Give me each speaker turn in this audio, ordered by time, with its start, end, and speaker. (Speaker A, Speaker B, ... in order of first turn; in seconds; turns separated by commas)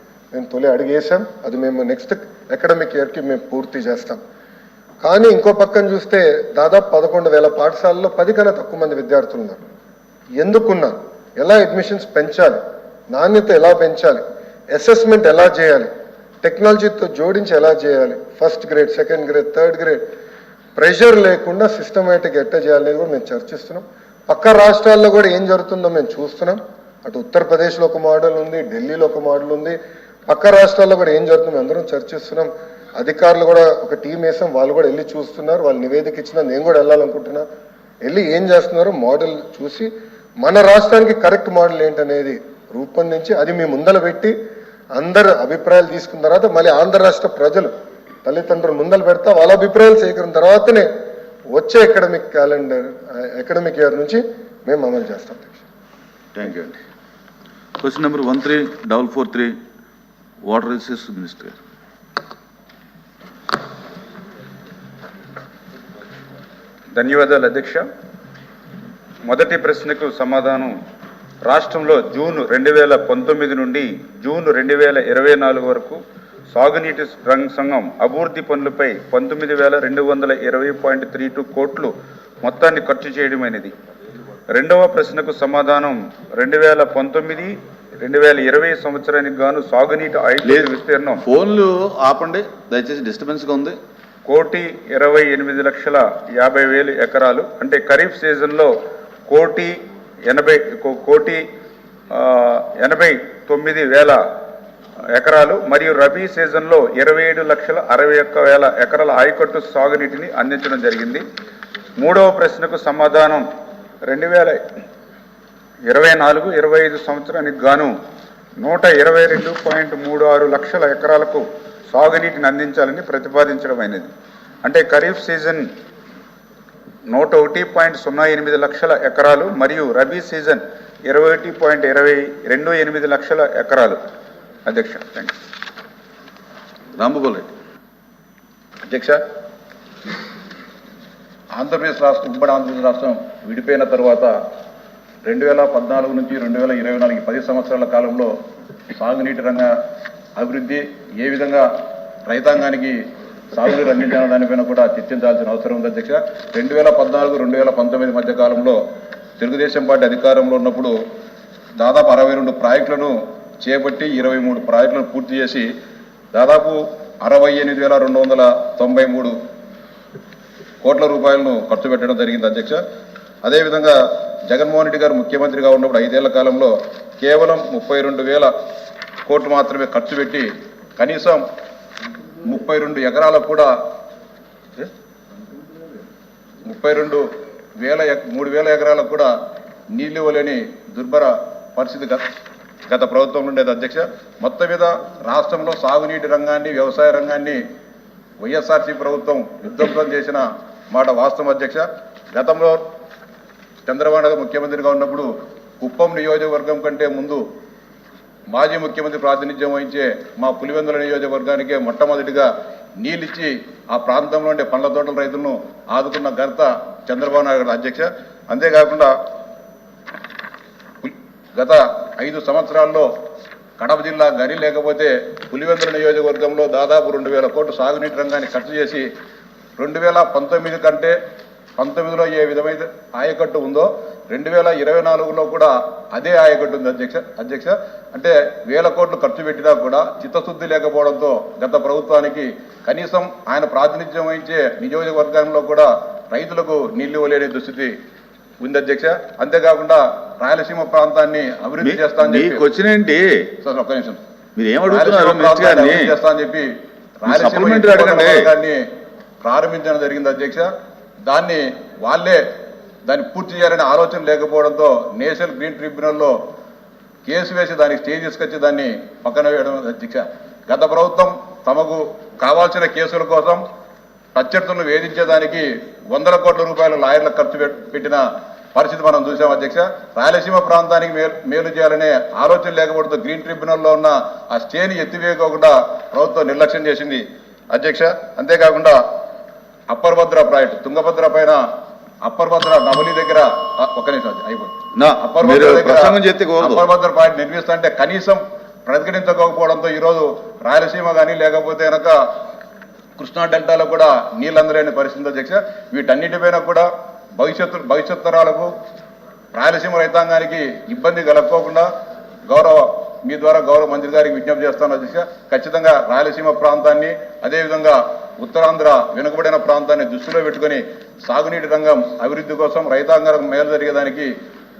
Speaker A: 0.3-4.2, Speaker A: 5.0-9.7, Speaker A: 10.4-12.6, Speaker A: 13.1-15.9, Speaker A: 16.4-20.0, Speaker A: 20.8-29.8, Speaker A: 30.3-37.4, Speaker A: 38.0-39.9, Speaker A: 40.4-44.3, Speaker A: 45.0-47.7, Speaker A: 48.2-50.9, Speaker A: 51.5-55.6, Speaker B: 56.3-56.8, Speaker B: 57.8-59.6, Speaker B: 60.4-61.6, Speaker C: 66.9-67.8, Speaker C: 69.2-70.8, Speaker C: 71.4-76.0, Speaker C: 76.5-83.7, Speaker C: 84.5-91.2, Speaker B: 90.4-93.8, Speaker C: 94.2-98.7, Speaker C: 99.3-101.4, Speaker C: 102.1-104.2, Speaker C: 105.1-111.2, Speaker C: 112.0-113.5, Speaker C: 114.0-114.6, Speaker C: 115.9-117.9, Speaker C: 118.6-124.1, Speaker C: 124.6-125.7, Speaker C: 127.1-134.0, Speaker C: 134.7-135.4, Speaker B: 136.9-137.5, Speaker D: 138.9-139.2, Speaker D: 141.5-144.3, Speaker D: 145.2-148.3, Speaker D: 148.9-149.7, Speaker D: 150.4-151.7, Speaker D: 152.3-153.0, Speaker D: 153.5-158.8, Speaker D: 159.4-160.9, Speaker D: 161.8-165.7, Speaker D: 166.3-169.3, Speaker D: 170.8-172.8, Speaker D: 173.4-178.5, Speaker D: 179.3-181.4, Speaker D: 182.4-183.8, Speaker D: 186.6-187.2, Speaker D: 187.8-189.3, Speaker D: 189.9-192.3, Speaker D: 192.9-197.6, Speaker D: 198.4-202.8, Speaker D: 203.8-207.4, Speaker D: 208.5-212.5, Speaker D: 213.0-219.1, Speaker D: 221.0-223.1, Speaker D: 223.8-229.1, Speaker D: 229.8-231.1, Speaker D: 231.8-247.9, Speaker D: 248.6-252.6, Speaker B: 251.8-253.5, Speaker D: 253.6-254.2, Speaker B: 254.5-256.1, Speaker D: 254.9-256.7, Speaker D: 257.2-258.8, Speaker B: 257.2-258.5, Speaker D: 259.4-260.7, Speaker D: 261.3-262.4, Speaker D: 263.1-266.3, Speaker D: 267.2-273.6, Speaker D: 274.3-278.2, Speaker D: 278.7-289.0, Speaker D: 289.9-291.6, Speaker D: 292.2-302.2, Speaker B: 294.9-296.9, Speaker D: 303.2-308.7, Speaker D: 309.5-311.9, Speaker D: 312.5-324.3